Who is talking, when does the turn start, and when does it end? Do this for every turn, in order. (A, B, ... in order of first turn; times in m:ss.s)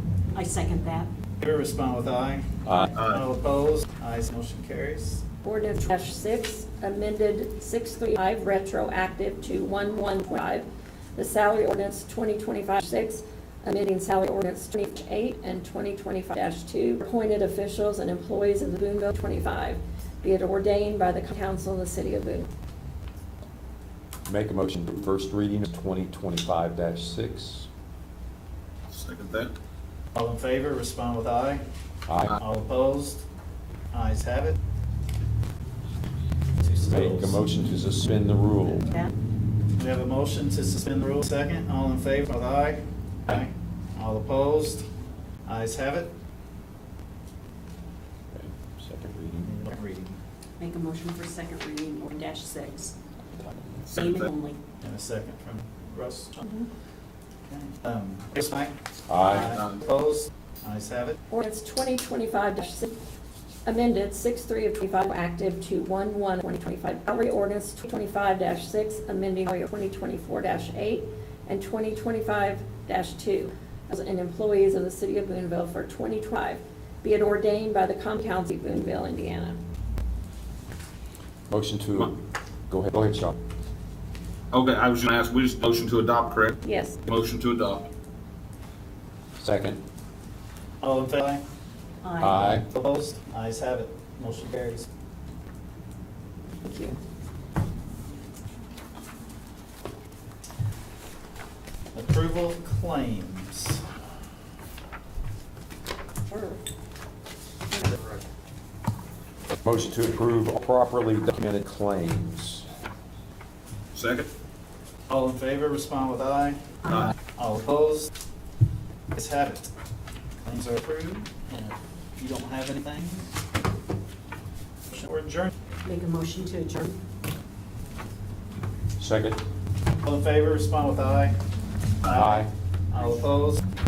0:00.3-0:01.1 A
0:01.4-0:05.2 B
0:02.6-0:02.9 C
0:02.9-0:03.2 D
0:05.4-0:22.5 E
0:24.3-0:27.7 C
0:28.9-0:29.5 D
0:30.1-0:31.6 B
0:32.1-0:32.3 C
0:32.3-0:33.2 B
0:33.9-0:34.6 B
0:36.6-0:37.4 B
0:36.9-0:38.9 C
0:39.8-0:44.9 B
0:45.4-0:46.1 B
0:48.3-0:49.5 C
0:49.4-0:50.2 B
0:50.6-0:52.9 A
0:53.9-0:54.3 D
0:53.9-0:54.6 A
0:54.8-0:56.5 B
0:57.5-1:01.2 B
0:59.1-0:59.6 C
0:59.2-0:59.5 A
0:59.4-0:59.8 D
1:01.3-1:03.0 E
1:03.7-1:19.6 E
1:21.5-1:22.2 C
1:22.7-1:23.4 C
1:24.5-1:27.9 D
1:26.6-1:27.0 E
1:29.4-1:29.8 C
1:30.8-1:31.4 B
1:32.0-1:32.4 A
1:32.2-1:32.7 C
1:32.3-1:34.9 B
1:36.6-1:37.0 E
1:41.9-1:43.9 B
1:46.3-1:46.6 E
1:49.6-1:52.7 C
1:53.9-1:54.3 D
1:55.1-1:58.1 B
1:56.9-1:57.1 D
1:59.1-1:59.7 B
2:00.4-2:03.3 B
2:04.9-2:05.5 B
2:05.8-2:07.0 A
2:09.0-2:09.4 C
2:10.0-2:11.4 B
2:12.0-2:13.6 B
2:12.1-2:12.5 C